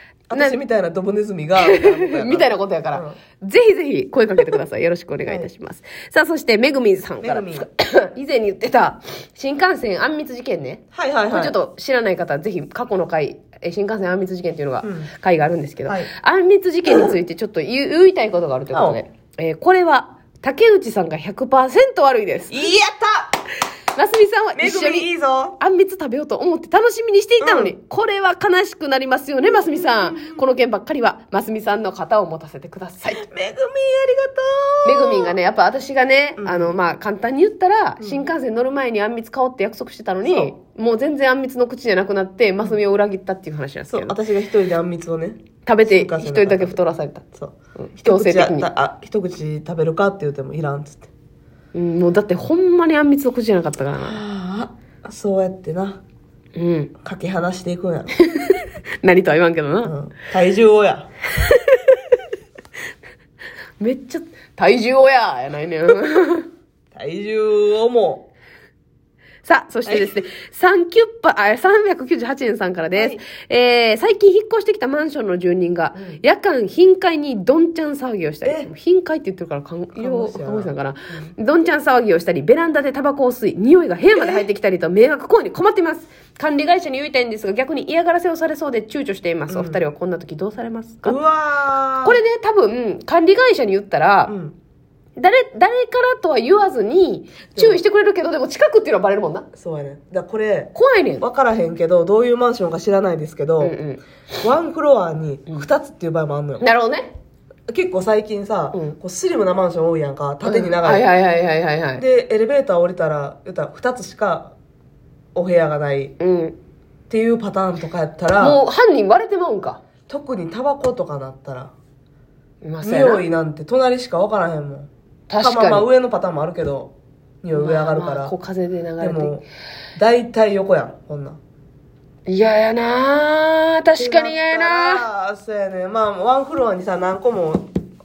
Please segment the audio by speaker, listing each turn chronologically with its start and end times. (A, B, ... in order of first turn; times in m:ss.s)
0:00.3-0:03.2 A
0:01.6-0:22.6 B
0:07.2-0:07.7 A
0:10.9-0:11.6 A
0:14.8-0:15.1 A
0:15.8-0:16.1 A
0:18.7-0:19.0 A
0:22.5-0:23.4 A
0:23.9-0:33.3 B
0:24.5-0:25.6 A
0:27.4-0:27.7 A
0:29.4-0:30.4 A
0:33.2-0:35.4 A
0:34.8-0:44.2 B
0:36.4-0:36.8 A
0:38.0-0:38.3 A
0:40.2-0:40.5 A
0:43.9-0:46.8 A
0:45.6-0:48.7 B
0:47.4-0:51.1 A
0:51.7-0:54.2 B
0:54.0-0:56.0 A
0:56.5-0:56.9 B
0:57.0-0:58.2 A
0:58.2-0:59.9 B
0:59.8-1:01.1 A
1:01.3-1:02.2 B
1:03.8-1:06.5 B
1:06.9-1:08.3 A
1:09.4-1:31.2 B
1:09.8-1:10.1 A
1:12.9-1:13.2 A
1:15.9-1:16.2 A
1:18.4-1:18.7 A
1:20.0-1:21.3 A
1:24.1-1:24.5 A
1:29.5-1:29.8 A
1:31.0-1:32.2 A
1:32.0-1:34.3 B
1:34.3-1:34.6 A
1:35.2-1:39.5 B
1:37.6-1:37.8 A
1:39.6-1:43.8 A
1:40.7-1:41.2 B
1:43.6-1:44.0 B
1:44.4-1:46.6 A
1:46.6-1:47.1 B
1:47.7-1:51.1 A
1:50.4-1:52.0 B
1:52.0-1:54.5 A
1:55.3-1:56.1 A
1:56.2-1:56.6 B
1:57.1-1:58.6 A
1:58.4-1:59.8 B
2:00.1-2:01.7 A
2:02.6-2:03.2 B
2:02.8-2:08.3 A
2:05.3-2:05.9 B
2:07.5-2:09.3 B
2:09.0-2:09.4 A
2:10.0-2:11.4 A
2:12.3-2:15.0 B
2:14.0-2:17.7 A